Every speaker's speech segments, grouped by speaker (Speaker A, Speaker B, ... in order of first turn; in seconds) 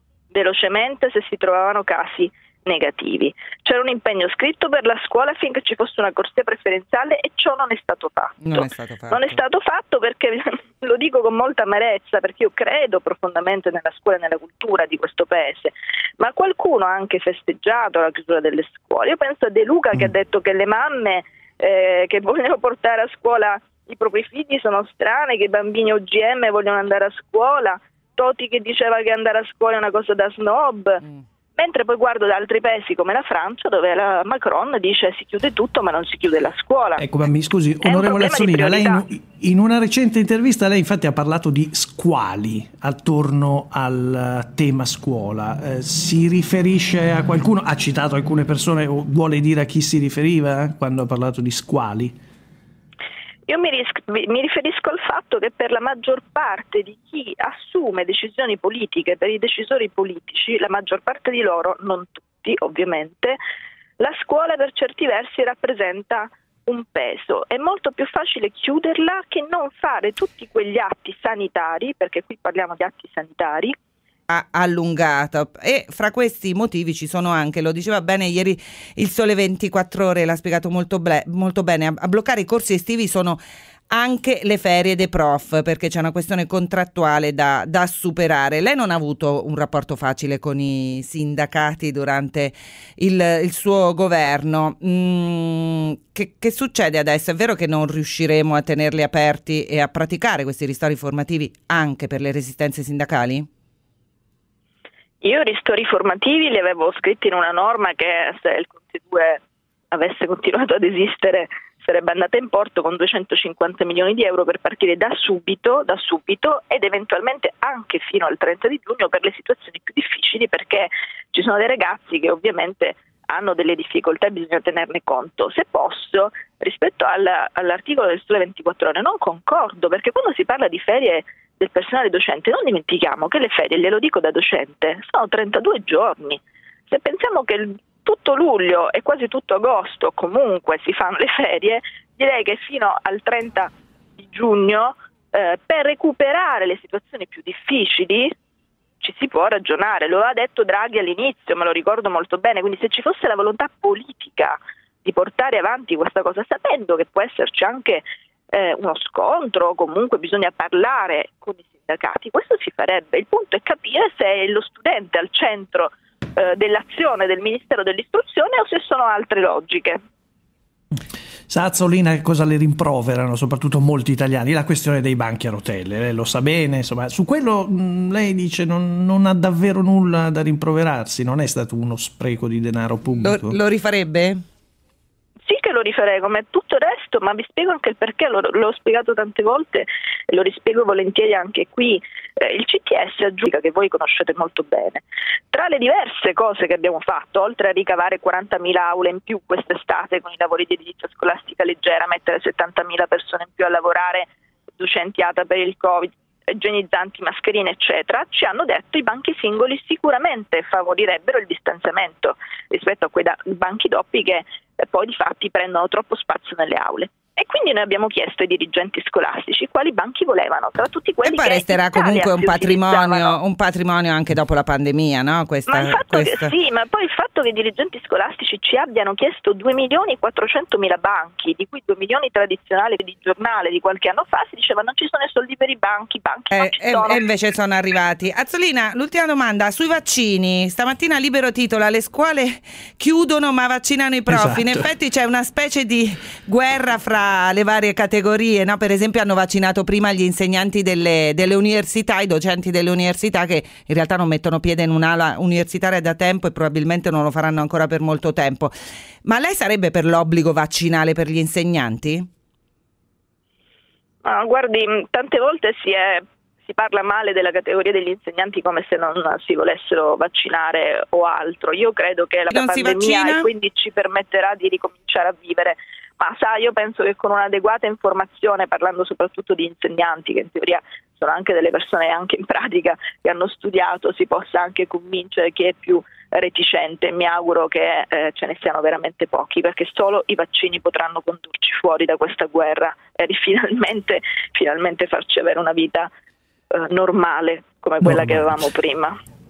Speaker A: 0.3-31.0, 31.6-37.0, 37.8-39.0, 53.5-63.4, 64.0-73.7, 105.2-148.3, 149.0-170.0, 185.4-223.4, 225.7-237.2, 264.2-296.1, 296.7-299.1
Speaker B: 8.4-9.4, 74.3-83.4, 83.9-103.5, 183.2-184.4, 221.2-226.5, 236.5-258.7, 259.2-262.3, 272.5-273.4
Speaker C: 37.0-52.1, 171.5-183.6, 244.3-244.9, 298.0-298.6